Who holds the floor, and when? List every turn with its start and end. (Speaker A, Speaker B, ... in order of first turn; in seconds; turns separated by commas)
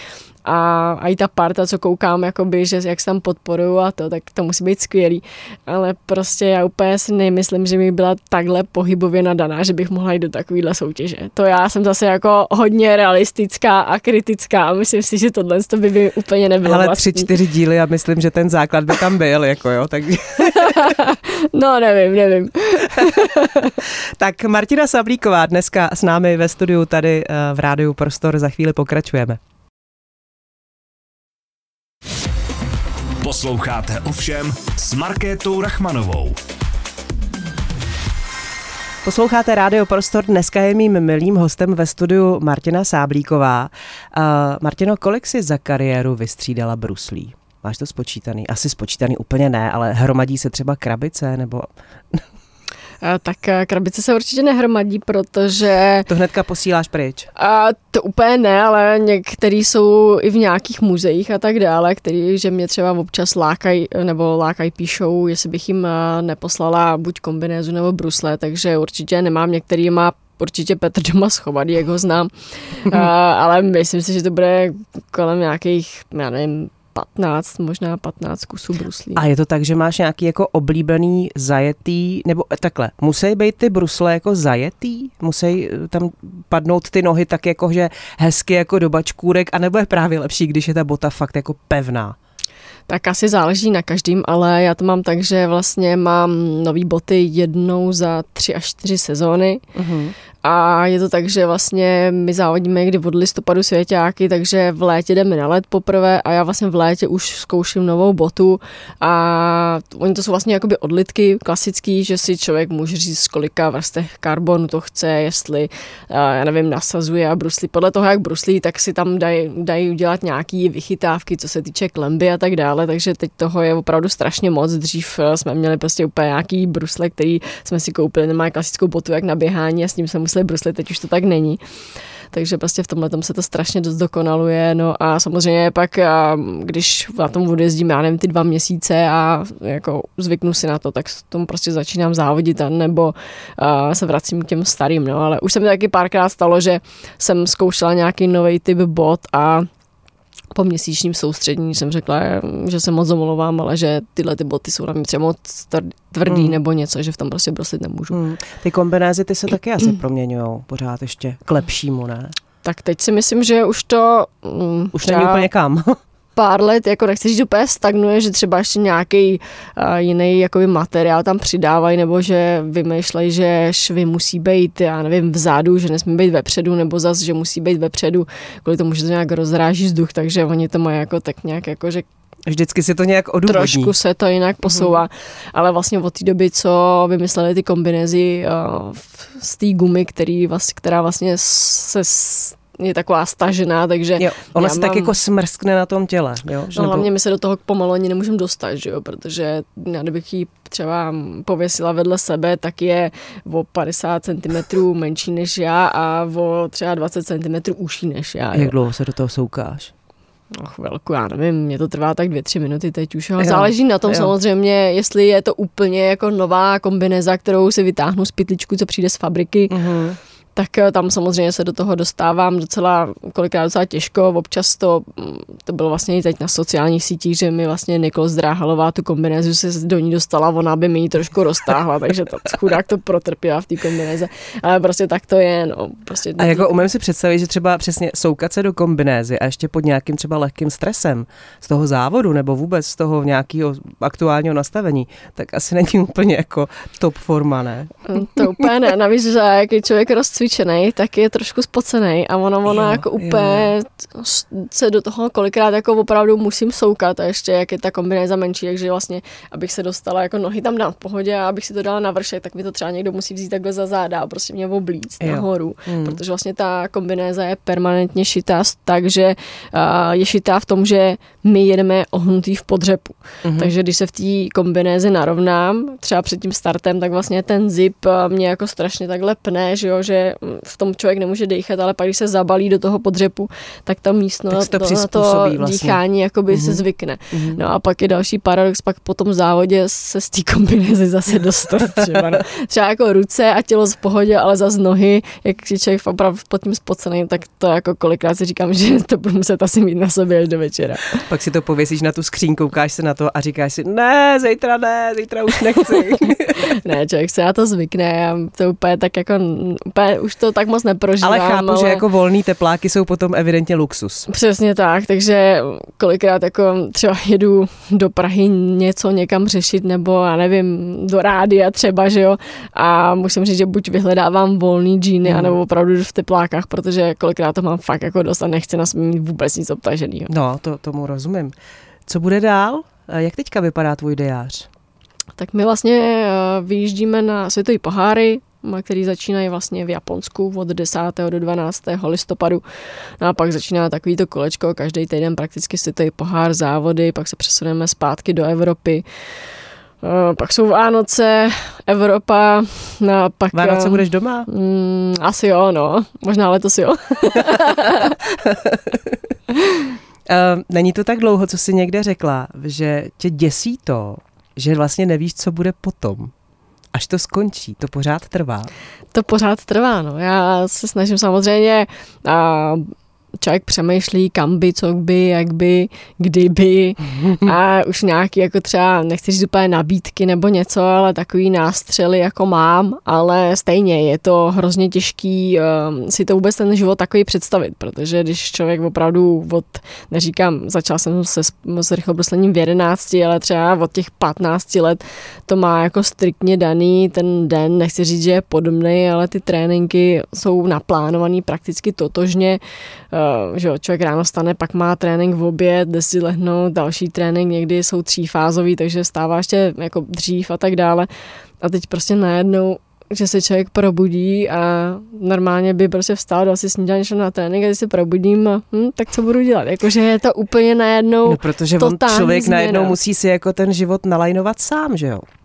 Speaker A: 0.4-17.3, Speaker B: 16.6-21.0, Speaker A: 20.4-23.8, Speaker B: 23.8-29.4, Speaker C: 33.2-36.4, Speaker B: 39.0-52.2, Speaker A: 53.0-56.1, Speaker B: 56.1-57.3, Speaker A: 57.4-79.2, Speaker B: 79.2-92.2, Speaker A: 92.9-99.6, Speaker B: 99.7-100.1, Speaker A: 100.4-131.6, Speaker A: 132.3-149.7, Speaker A: 150.5-158.2, Speaker B: 156.3-156.6, Speaker B: 158.1-162.3, Speaker A: 162.6-165.4, Speaker B: 164.9-166.0, Speaker A: 166.3-182.1, Speaker B: 182.4-183.9, Speaker A: 183.5-195.1, Speaker B: 184.7-185.0, Speaker B: 194.2-197.1, Speaker A: 196.7-208.7, Speaker B: 208.5-209.9, Speaker A: 210.5-219.8, Speaker B: 213.4-214.3, Speaker B: 219.7-220.2, Speaker A: 220.6-236.7, Speaker B: 236.4-248.7, Speaker A: 248.1-301.2, Speaker B: 252.7-253.7, Speaker B: 265.2-266.2, Speaker B: 273.4-273.7, Speaker B: 284.5-287.6, Speaker B: 301.2-306.6, Speaker A: 306.6-312.0, Speaker B: 311.2-314.3, Speaker A: 314.3-330.3, Speaker B: 325.2-325.5, Speaker B: 330.3-331.5, Speaker B: 332.1-334.7, Speaker A: 335.4-342.6, Speaker A: 343.2-349.0, Speaker A: 350.0-358.2, Speaker B: 353.5-354.5, Speaker B: 357.4-359.2, Speaker B: 360.3-366.3, Speaker B: 366.9-368.7, Speaker A: 369.1-402.6, Speaker A: 403.1-411.1, Speaker A: 411.6-423.0, Speaker B: 421.2-425.2